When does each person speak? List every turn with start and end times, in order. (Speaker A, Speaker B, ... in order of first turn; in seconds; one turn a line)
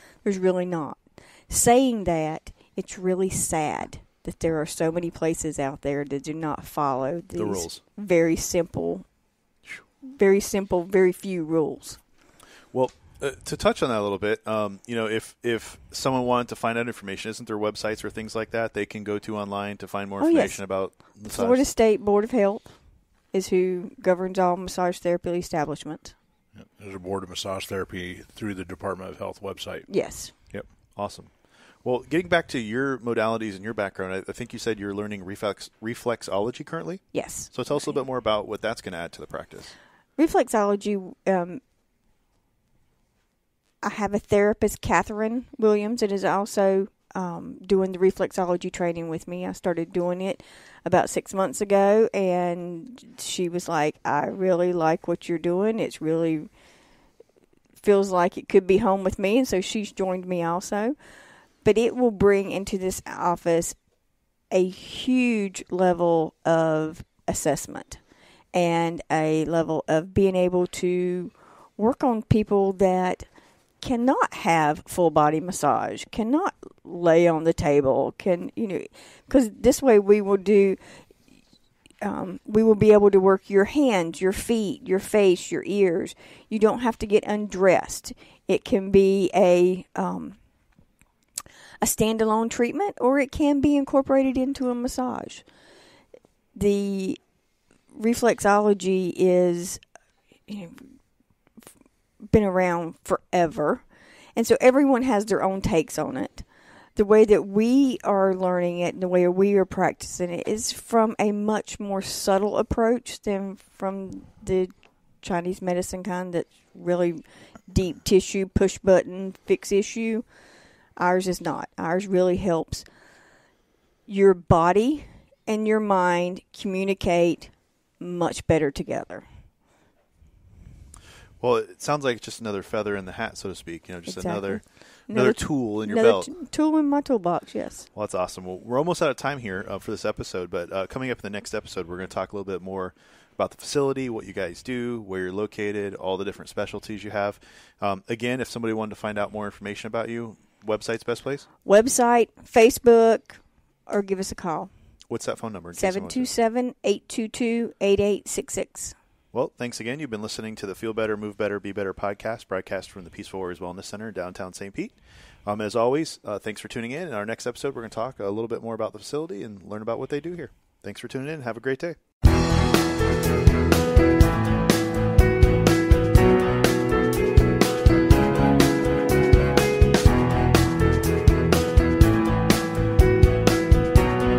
Speaker A: 0.2-9.0
Speaker B: 7.3-7.8
Speaker A: 10.0-12.0
Speaker B: 12.7-21.6
Speaker A: 20.2-20.6
Speaker A: 21.1-22.8
Speaker A: 23.3-26.1
Speaker C: 26.5-29.9
Speaker A: 29.9-30.3
Speaker B: 30.6-31.3
Speaker B: 31.8-39.7
Speaker A: 37.1-38.0
Speaker A: 40.2-41.6
Speaker A: 43.8-56.5
Speaker A: 57.8-60.9
Speaker A: 61.6-63.8
Speaker A: 64.5-68.0
Speaker A: 68.5-73.3
Speaker A: 73.8-80.8
Speaker A: 82.0-90.4
Speaker A: 91.8-95.4
Speaker A: 96.5-97.2
Speaker A: 97.9-99.8
Speaker A: 100.5-100.9
Speaker A: 102.3-103.8
Speaker A: 104.4-120.2
Speaker A: 121.0-122.8
Speaker A: 124.1-129.2
Speaker B: 131.4-136.3
Speaker A: 134.1-137.9
Speaker B: 137.9-151.4
Speaker A: 151.6-154.7
Speaker B: 155.1-156.3
Speaker A: 155.7-158.9
Speaker B: 159.3-172.0